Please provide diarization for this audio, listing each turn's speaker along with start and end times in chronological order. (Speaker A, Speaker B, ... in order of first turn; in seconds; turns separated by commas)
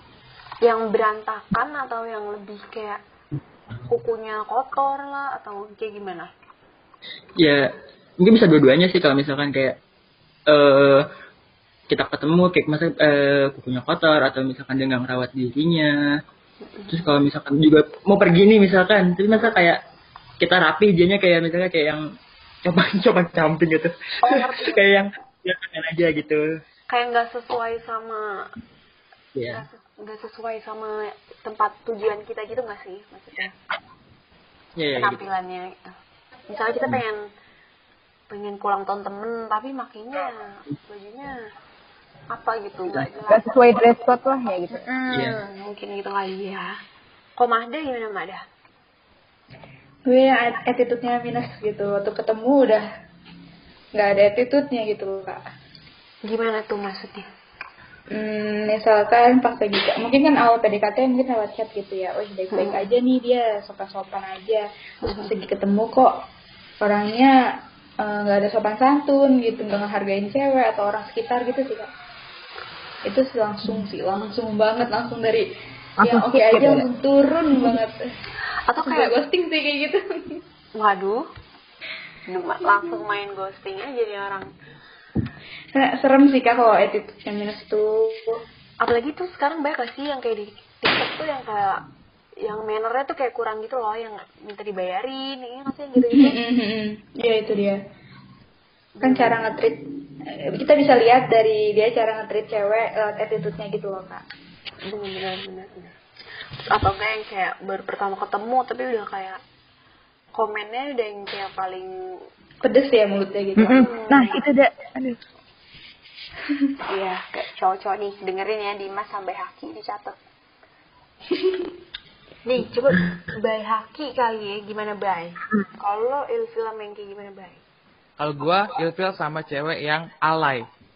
Speaker A: 0.6-3.0, Speaker A: 3.9-6.3, Speaker B: 7.4-9.8, Speaker B: 10.5-11.0, Speaker B: 11.9-15.9, Speaker B: 16.9-19.8, Speaker B: 20.4-22.0, Speaker B: 22.6-26.4, Speaker A: 24.2-24.8, Speaker A: 26.9-28.5, Speaker B: 29.4-29.7, Speaker A: 29.5-33.5, Speaker B: 34.8-35.2, Speaker A: 34.9-35.9, Speaker A: 36.5-37.2, Speaker A: 38.3-41.4, Speaker A: 42.3-43.8, Speaker C: 43.3-44.9, Speaker A: 44.7-46.7, Speaker B: 45.1-45.4, Speaker A: 47.4-48.4, Speaker D: 50.1-52.8, Speaker D: 54.0-55.4, Speaker A: 56.2-57.3, Speaker D: 58.1-66.1, Speaker A: 62.5-62.8, Speaker A: 65.1-65.5, Speaker D: 66.8-67.3, Speaker D: 68.0-71.9, Speaker D: 73.1-75.5, Speaker C: 76.0-76.9, Speaker D: 76.0-78.0, Speaker A: 78.7-79.2, Speaker D: 78.8-80.0, Speaker A: 80.8-81.2, Speaker A: 82.3-84.5, Speaker D: 85.8-88.2, Speaker A: 88.8-91.8, Speaker A: 92.4-96.4, Speaker D: 96.1-97.8, Speaker A: 99.0-99.4, Speaker D: 99.0-99.8, Speaker D: 100.6-104.2, Speaker A: 104.9-105.9, Speaker A: 106.7-109.4, Speaker A: 110.3-111.9, Speaker D: 112.6-113.9, Speaker C: 113.6-115.2, Speaker A: 113.7-114.5, Speaker A: 116.9-120.2, Speaker A: 122.5-127.6, Speaker E: 128.2-130.7